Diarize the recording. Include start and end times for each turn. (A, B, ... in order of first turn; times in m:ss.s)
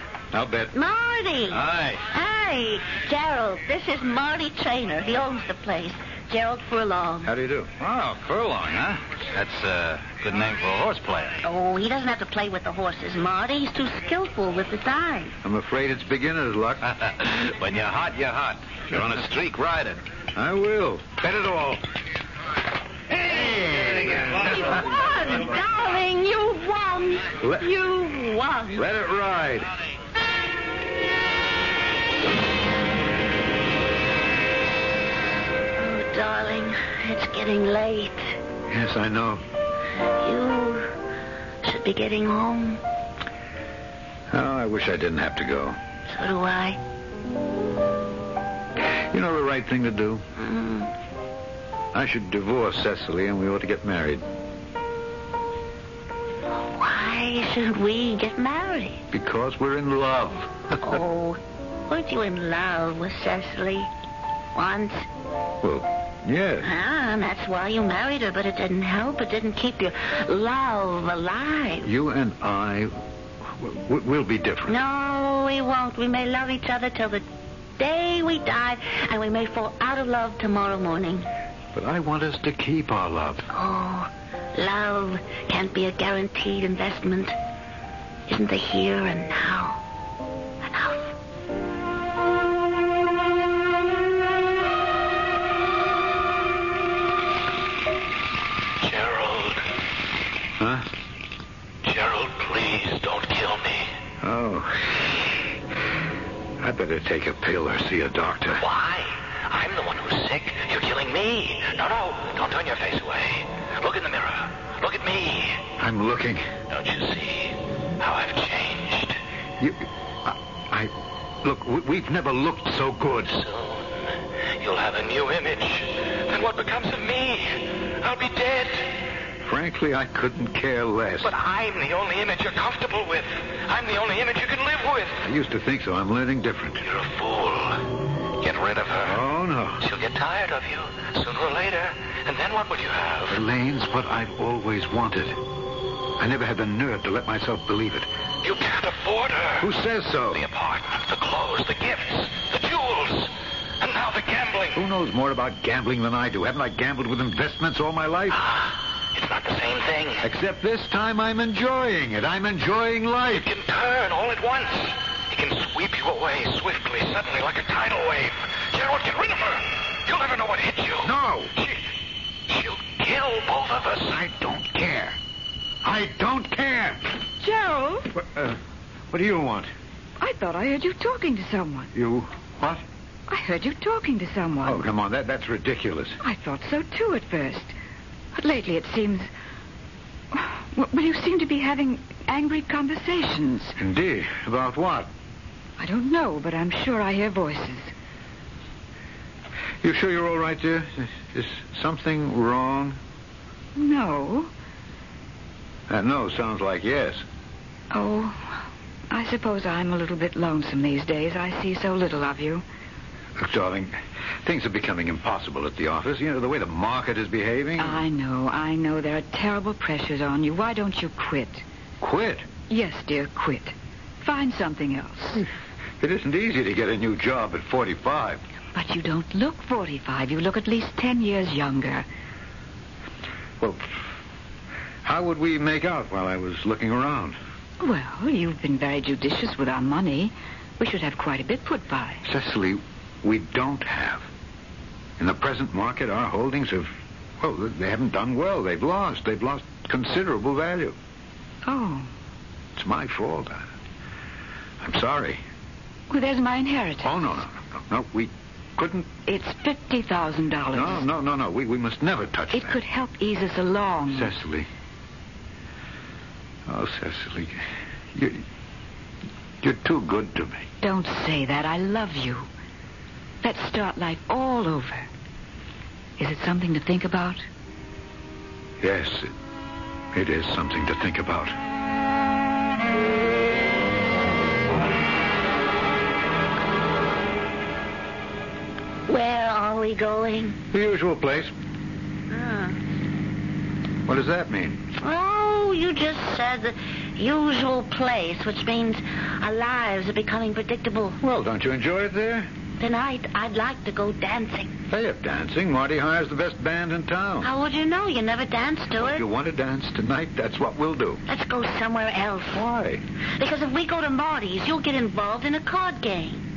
0:00.3-0:00.7 A
0:00.7-0:07.3 B
0:01.5-0:02.0 C
0:07.2-0:07.7 A
0:07.8-0:11.4 C
0:11.4-0:15.4 B
0:15.4-0:16.9 A
0:17.0-0:20.0 C
0:20.3-0:21.6 A
0:21.3-0:21.8 C
0:23.1-0:24.5 A
0:24.3-0:28.8 B
0:27.4-0:27.7 A
0:28.7-0:29.7 A
0:35.8-0:38.4 B
0:38.7-0:39.4 A
0:40.0-0:40.9 B
0:41.6-0:42.8 B
0:44.3-0:45.8 A
0:46.1-0:46.8 B
0:48.8-0:50.2 A
0:50.4-0:50.9 B
0:51.9-0:54.2 A
0:56.5-0:59.0 B
0:59.1-1:01.0 A
1:00.8-1:03.9 B
1:04.5-1:05.0 B
1:05.6-1:06.7 A
1:06.6-1:11.9 B
1:11.8-1:12.9 A
1:13.6-1:14.8 A
1:14.7-1:17.2 B
1:17.8-1:21.3 B
1:21.7-1:23.5 A
1:23.5-1:27.3 B
1:28.3-1:29.8 B
1:30.6-1:31.1 B
1:38.8-1:39.6 D
1:40.6-1:40.8 A
1:41.8-1:43.9 D
1:44.2-1:45.4 A
1:46.6-1:48.6 A
1:48.6-1:55.7 D
1:55.8-1:56.4 A
1:56.7-1:59.2 D
1:59.6-2:00.9 A
2:01.4-2:03.4 A
2:03.3-2:08.9 D
2:09.4-2:11.3 A
2:11.2-2:15.2 D
2:15.2-2:16.8 A
2:16.8-2:19.2 D
2:19.0-2:19.8 A
2:19.8-2:23.4 D
2:23.3-2:25.4 A
2:26.2-2:28.1 A
2:28.4-2:29.7 D
2:29.6-2:30.4 A
2:30.3-2:34.8 D
2:34.7-2:38.4 A
2:38.3-2:40.3 D
2:40.2-2:43.5 A
2:43.3-2:51.8 D
2:51.0-2:51.5 A
2:52.5-2:54.2 D
2:54.1-2:55.2 A
2:55.8-2:57.1 A
2:57.4-2:58.1 E
2:58.1-2:58.6 A
2:59.1-2:59.7 A
3:00.2-3:01.9 E
3:01.9-3:02.8 A
3:03.3-3:04.8 E
3:04.6-3:06.2 A
3:06.2-3:07.7 E
3:08.3-3:09.3 E
3:10.3-3:13.8 E
3:13.8-3:15.1 A
3:15.8-3:17.9 E
3:19.8-3:23.0 A
3:23.8-3:24.5 E
3:25.9-3:27.2 A
3:27.9-3:32.6 E
3:33.4-3:38.0 A
3:37.8-3:41.6 E
3:42.0-3:42.4 A
3:42.7-3:45.4 E
3:46.0-3:48.4 A
3:48.7-3:52.1 E
3:53.6-3:54.0 A
3:55.0-3:57.4 A
3:57.8-4:02.2 E
4:02.2-4:04.2 A
4:05.2-4:11.0 A
4:11.6-4:12.1 E
4:12.8-4:13.7 A
4:14.8-4:15.4 A
4:16.1-4:17.1 E
4:17.0-4:19.1 A
4:19.2-4:21.0 E
4:20.7-4:22.8 A
4:22.5-4:24.3 E
4:24.1-4:24.7 A
4:26.6-4:27.6 A
4:28.1-4:28.4 A
4:29.6-4:30.6 A
4:30.8-4:32.5 E
4:33.4-4:35.1 E
4:36.2-4:37.4 E
4:38.8-4:39.3 A
4:40.1-4:41.5 A
4:49.1-4:50.6 B
4:50.7-4:51.5 A
4:52.3-4:52.8 B
4:54.1-4:54.8 A
4:55.0-5:01.2 B
5:01.2-5:02.5 A
5:02.8-5:04.7 B
5:04.9-5:07.5 A
5:07.4-5:09.2 B
5:09.0-5:11.2 A
5:11.3-5:12.6 B
5:12.5-5:13.0 A
5:13.4-5:16.4 B